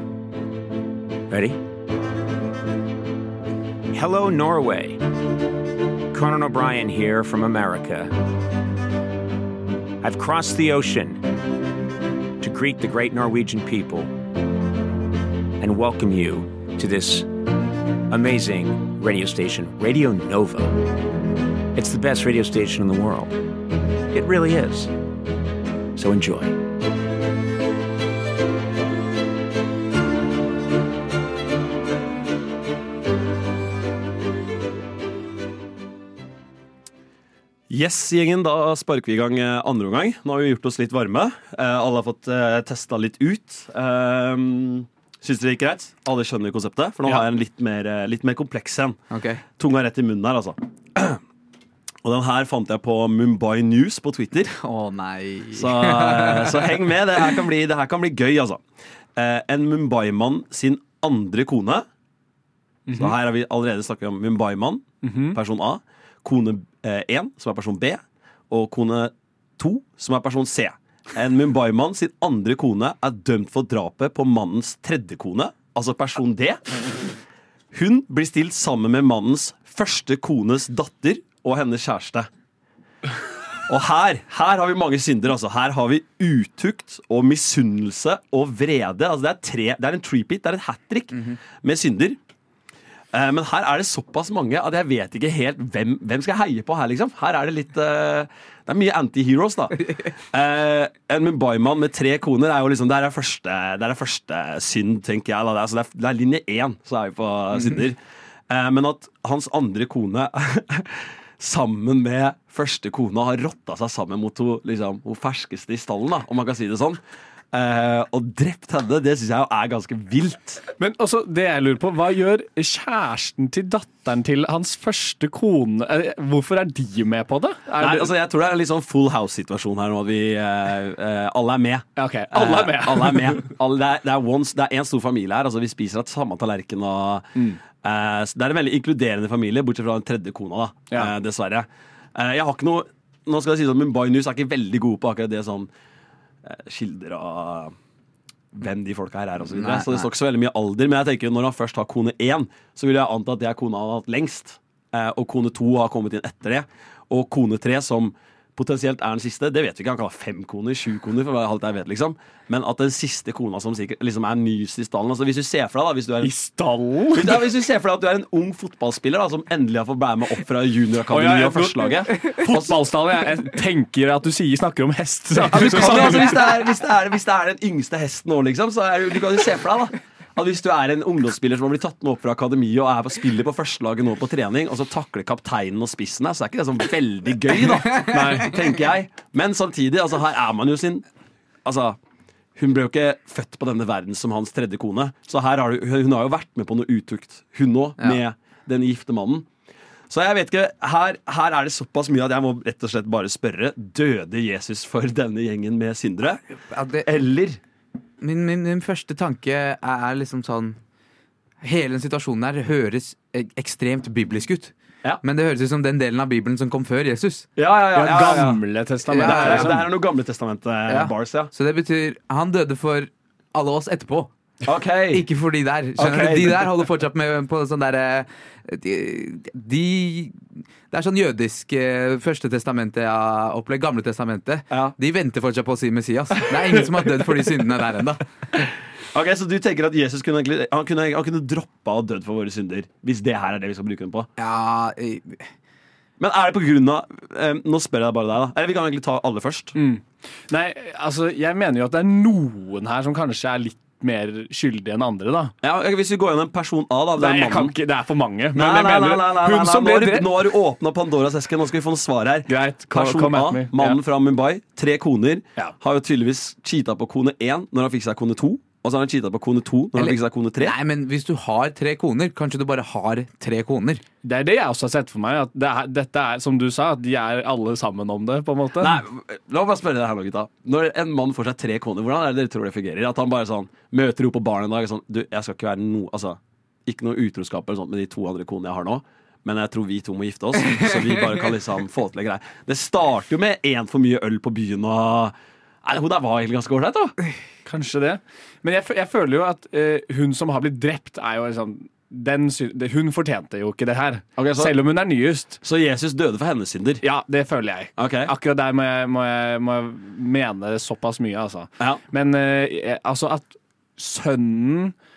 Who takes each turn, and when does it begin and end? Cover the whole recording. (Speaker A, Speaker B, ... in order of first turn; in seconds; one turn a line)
Speaker A: 1.3-1.6
Speaker A: 3.9-5.0
Speaker A: 6.1-8.1
Speaker A: 10.0-11.2
Speaker A: 12.4-14.1
Speaker A: 15.6-17.3
Speaker A: 18.1-21.0
Speaker A: 21.8-23.4
Speaker A: 24.1-24.9
Speaker A: 26.0-26.6
Speaker B: 37.7-49.0
Speaker C: 49.1-49.4
Speaker B: 49.6-51.2
Speaker B: 52.0-54.5
Speaker C: 54.6-56.8
Speaker B: 55.5-58.6
Speaker B: 59.2-61.9
Speaker B: 62.9-76.7
Speaker D: 65.0-65.4
Speaker B: 77.7-82.3
Speaker B: 83.7-92.2
Speaker B: 93.1-108.0
Speaker B: 108.5-117.0
Speaker B: 117.5-120.6
Speaker D: 120.8-128.1
Speaker B: 127.8-145.7
Speaker D: 132.0-133.4
Speaker B: 146.4-147.8
Speaker B: 148.6-166.3
Speaker C: 149.5-150.1
Speaker D: 166.2-167.4
Speaker B: 167.1-172.8
Speaker D: 171.1-176.4
Speaker B: 175.5-191.1
Speaker C: 175.7-176.3
Speaker C: 188.0-188.4
Speaker B: 191.7-192.0
Speaker B: 192.6-199.5
Speaker B: 200.1-206.4
Speaker C: 206.7-207.1
Speaker B: 207.0-207.6
Speaker C: 208.2-210.8
Speaker C: 211.6-217.5
Speaker B: 217.6-218.6
Speaker D: 217.9-219.9
Speaker C: 219.1-219.8
Speaker B: 219.1-221.5
Speaker C: 220.9-224.3
Speaker B: 224.7-225.3
Speaker C: 225.1-238.2
Speaker B: 226.0-226.7
Speaker B: 238.6-244.3
Speaker C: 244.4-245.5
Speaker B: 246.2-249.8
Speaker D: 249.8-255.5
Speaker B: 255.6-257.8
Speaker D: 257.2-260.3
Speaker B: 258.6-270.8
Speaker D: 262.5-264.0
Speaker C: 269.9-274.0
Speaker D: 274.2-279.0
Speaker B: 278.8-297.2
Speaker D: 297.6-305.6
Speaker B: 304.4-304.8
Speaker B: 305.6-307.0
Speaker D: 307.0-314.9
Speaker B: 308.0-308.3